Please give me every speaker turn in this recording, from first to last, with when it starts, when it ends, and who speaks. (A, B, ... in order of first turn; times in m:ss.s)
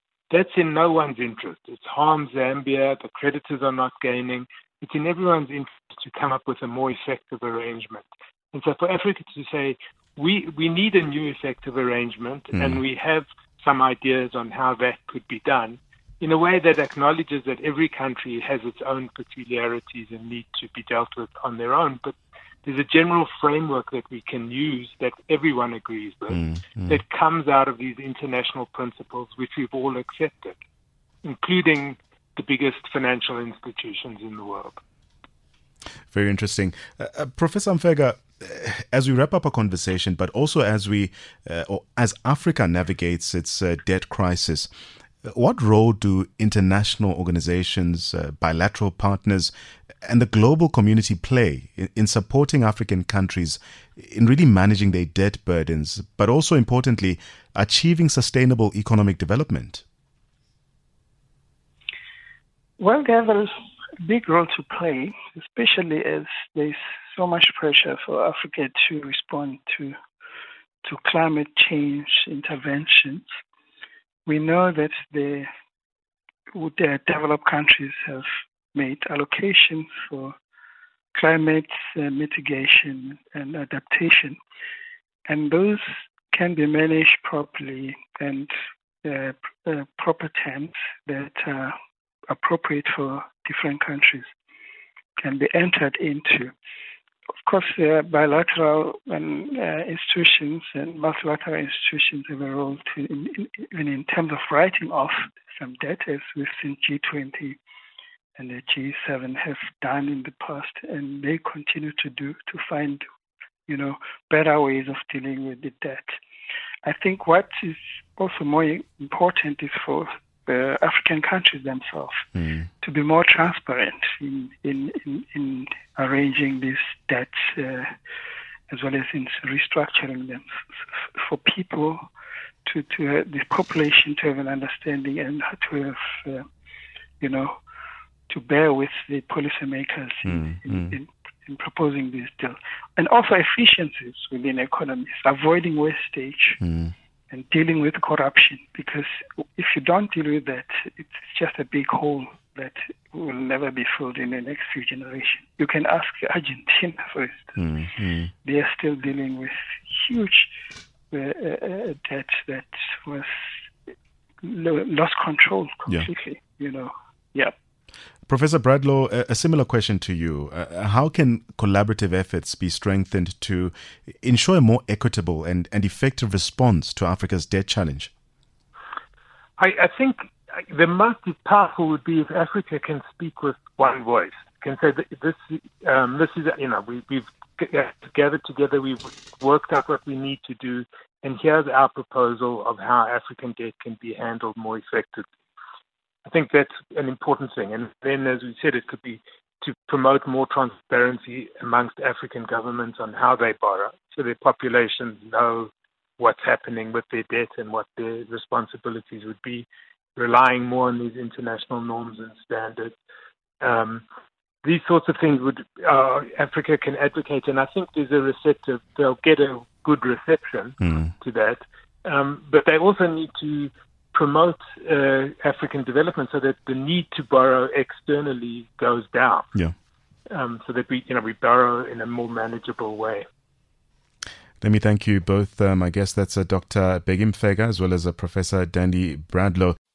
0:00.3-0:30.6 A
0:12.5-0:12.8 B
0:26.3-0:27.0 B
0:31.2-0:34.8 A
0:36.1-0:44.7 B
0:45.2-0:49.5 B
0:50.0-0:59.8 B
1:02.8-1:03.5 C
1:04.0-1:09.9 C
1:10.8-1:13.2 C
1:14.2-1:15.5 C
1:16.5-1:20.3 C
1:21.1-1:24.4 C
1:25.3-1:28.5 C
1:29.0-1:31.7 C
1:32.3-1:34.3 C
1:35.2-1:36.5 C
1:37.4-1:47.6 C
1:48.4-1:53.0 C
1:53.7-1:56.1 C
1:56.8-2:02.2 C
2:02.4-2:02.7 B
2:02.8-2:07.9 C
2:08.7-2:10.6 C
2:11.1-2:12.0 C
2:12.6-2:16.5 C
2:17.2-2:17.6 C
2:18.3-2:26.6 C
2:20.2-2:21.0 B
2:26.6-2:26.9 B
2:27.3-2:37.6 C
2:37.6-2:38.3 B
2:38.4-2:40.5 C
2:41.1-2:47.5 C
2:48.2-2:58.1 B
2:59.6-3:15.2 A
3:16.2-3:32.9 A
3:33.6-3:34.0 A
3:34.6-3:49.5 A
3:40.8-3:41.1 B
3:50.3-3:53.2 A
3:54.6-3:59.8 B